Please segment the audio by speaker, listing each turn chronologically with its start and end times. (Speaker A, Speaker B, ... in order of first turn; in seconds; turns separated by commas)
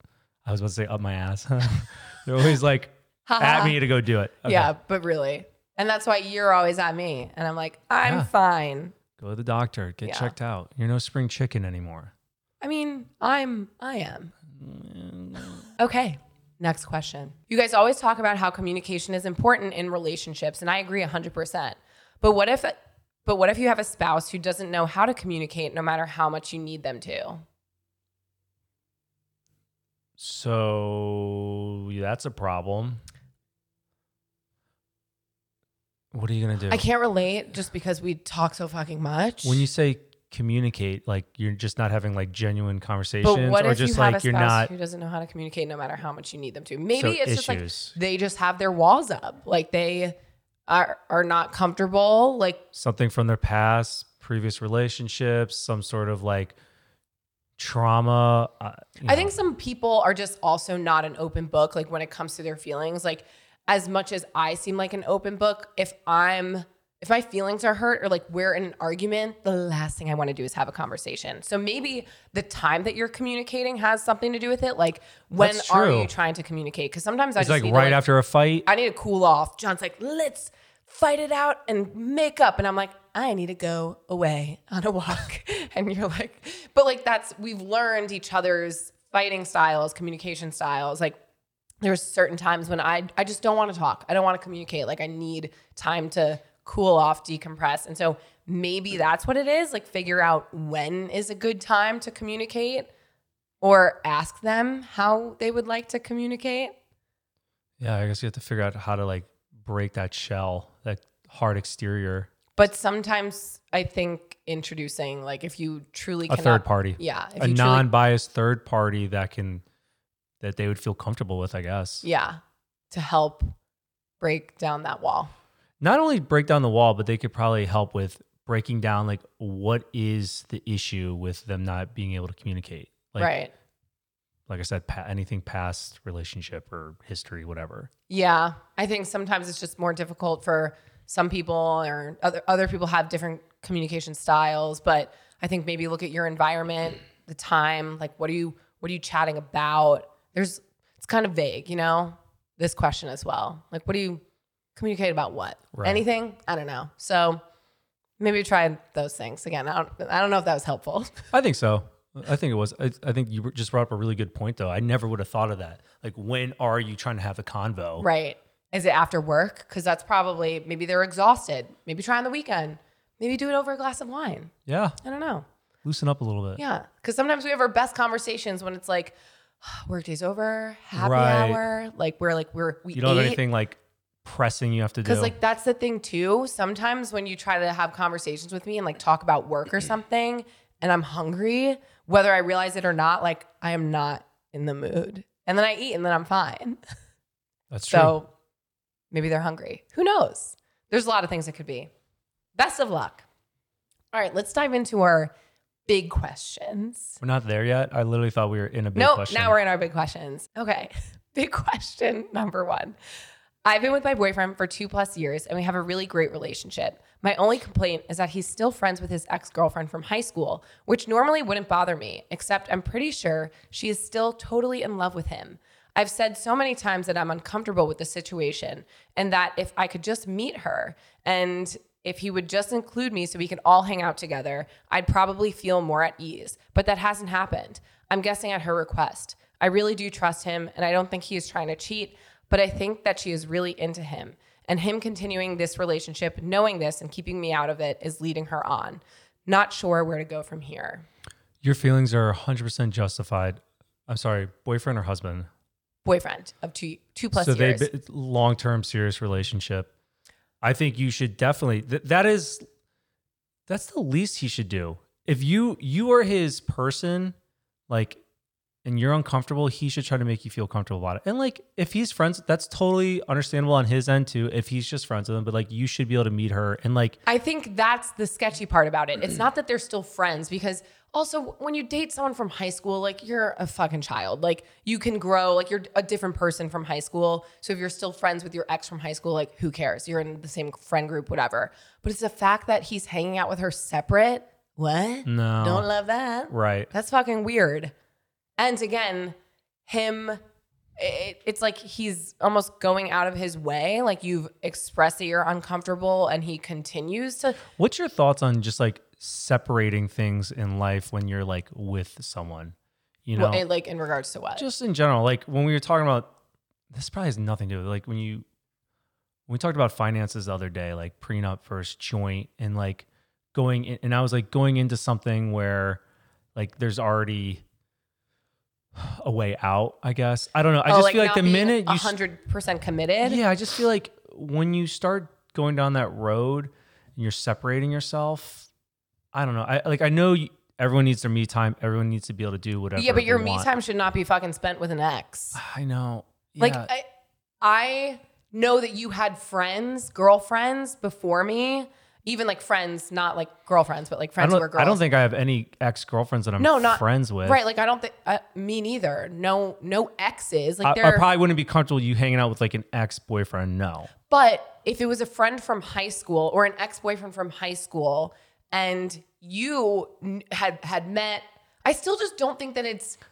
Speaker A: 0.5-4.7, Speaker B: 3.2-3.8, Speaker B: 4.4-8.9, Speaker A: 9.2-12.1, Speaker B: 10.0-10.3, Speaker B: 12.6-14.3, Speaker A: 14.6-15.7, Speaker B: 15.8-27.4, Speaker A: 30.2-33.0, Speaker A: 36.1-36.8, Speaker B: 36.7-39.6, Speaker A: 39.4-44.7, Speaker B: 43.2-50.1, Speaker A: 47.0-47.9, Speaker B: 50.7-52.6, Speaker A: 52.7-56.5, Speaker A: 57.6-59.3, Speaker B: 59.0-78.0, Speaker A: 75.4-76.1, Speaker A: 77.4-78.7, Speaker B: 78.7-91.2, Speaker B: 91.8-102.9, Speaker B: 103.6-106.7, Speaker A: 107.8-112.3, Speaker B: 112.5-117.9, Speaker A: 116.3-119.6, Speaker A: 120.4-122.0, Speaker B: 122.0-122.4, Speaker B: 122.9-123.5, Speaker B: 124.2-125.3, Speaker A: 125.8-133.3, Speaker B: 133.2-133.5, Speaker A: 134.5-137.9, Speaker B: 138.1-154.2, Speaker B: 154.8-157.4, Speaker A: 155.7-156.0, Speaker B: 158.2-161.3, Speaker A: 161.3-168.1, Speaker B: 168.0-175.4, Speaker A: 174.7-175.0, Speaker A: 175.8-176.6, Speaker B: 176.6-183.4, Speaker A: 180.9-181.6, Speaker A: 182.9-185.3, Speaker B: 185.0-196.8, Speaker A: 197.7-198.2, Speaker B: 197.9-198.3, Speaker B: 199.1-201.9, Speaker B: 202.6-203.2, Speaker B: 204.1-205.3, Speaker B: 205.8-207.2, Speaker A: 207.2-209.6, Speaker B: 208.9-213.0, Speaker B: 213.6-251.1, Speaker A: 251.6-255.5, Speaker B: 256.0-257.9, Speaker A: 257.3-259.9, Speaker A: 260.6-262.6, Speaker A: 263.7-267.3, Speaker A: 267.9-268.2, Speaker A: 268.8-277.2, Speaker B: 277.2-297.9, Speaker A: 295.2-295.9, Speaker A: 296.5-296.9, Speaker B: 298.6-300.4, Speaker B: 301.0-307.6, Speaker A: 307.8-312.7, Speaker A: 313.2-313.6, Speaker B: 313.4-314.6, Speaker A: 314.6-316.3, Speaker A: 316.9-318.4, Speaker A: 319.5-326.0, Speaker A: 326.5-327.6, Speaker A: 328.9-332.1, Speaker B: 330.9-333.4, Speaker A: 333.2-338.7, Speaker A: 339.3-343.7, Speaker B: 342.9-345.6, Speaker A: 345.5-346.9, Speaker B: 346.6-347.1, Speaker B: 347.6-355.0, Speaker A: 354.4-357.6, Speaker B: 356.6-361.2, Speaker A: 360.8-364.1, Speaker B: 364.3-373.2